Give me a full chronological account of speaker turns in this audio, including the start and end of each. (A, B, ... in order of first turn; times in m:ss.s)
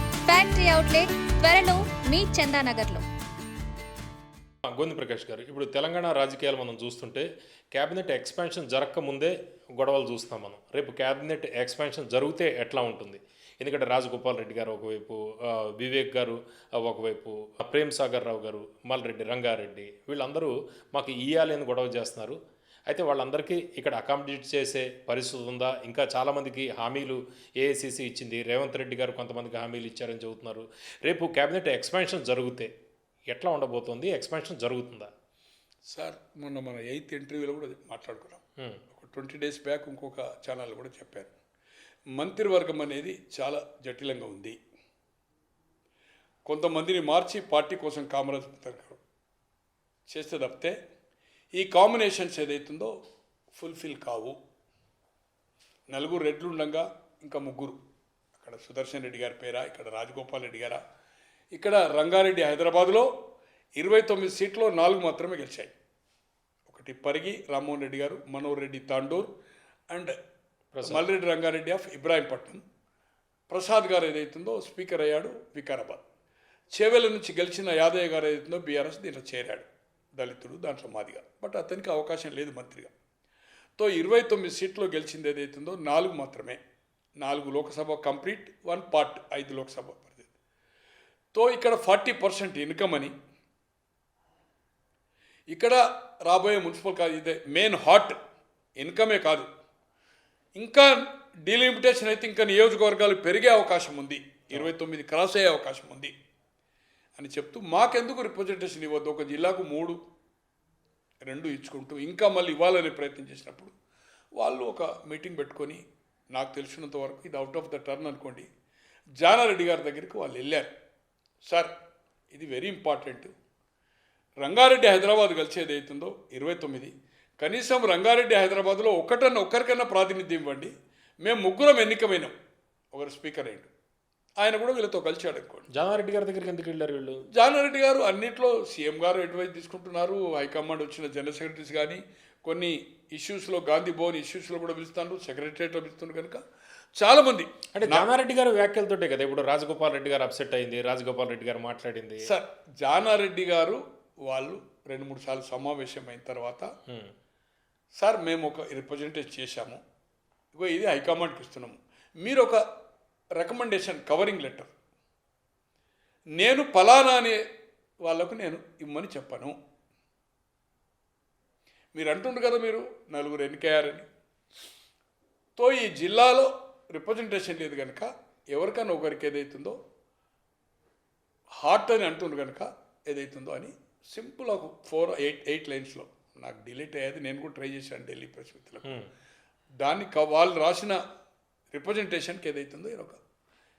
0:00.2-0:03.0 A
0:04.7-0:22.4 B
0:22.9-0:32.7 B
0:33.3-0:35.1 B
0:35.9-0:41.3 C
0:42.2-0:44.6 C
0:46.4-0:49.0 C
0:50.1-0:50.7 C
0:51.5-0:52.9 C
0:53.5-0:54.4 C
0:55.9-0:57.8 C
0:58.4-1:00.8 C
1:01.5-1:03.1 C
1:03.8-1:05.7 C
1:06.7-1:09.3 C
1:10.7-1:11.0 B
1:10.8-1:12.6 C
1:13.5-1:16.0 C
1:16.7-1:22.9 C
1:23.8-1:26.6 C
1:27.2-1:30.2 C
1:31.3-1:33.1 C
1:35.5-1:38.2 C
1:38.8-1:39.4 C
1:40.6-1:46.1 C
1:47.2-1:50.0 C
1:51.2-1:53.7 C
1:54.4-1:55.8 C
1:56.3-1:58.5 C
1:59.2-2:00.7 C
2:01.4-2:01.7 C
2:02.3-2:03.3 C
2:04.4-2:10.7 C
2:11.2-2:12.3 C
2:12.9-2:13.7 C
2:14.4-2:15.7 C
2:15.7-2:17.2 B
2:17.3-2:26.4 C
2:27.0-2:28.1 C
2:27.7-2:32.3 B
2:32.2-2:36.7 C
2:36.9-2:37.1 B
2:38.0-2:39.8 C
2:40.5-2:42.6 C
2:43.4-2:44.7 C
2:46.4-2:47.4 C
2:48.0-2:49.5 C
2:51.9-2:54.0 C
2:55.6-2:59.8 C
3:01.6-3:08.9 C
3:08.8-3:09.1 B
3:09.8-3:11.0 C
3:11.7-3:13.2 C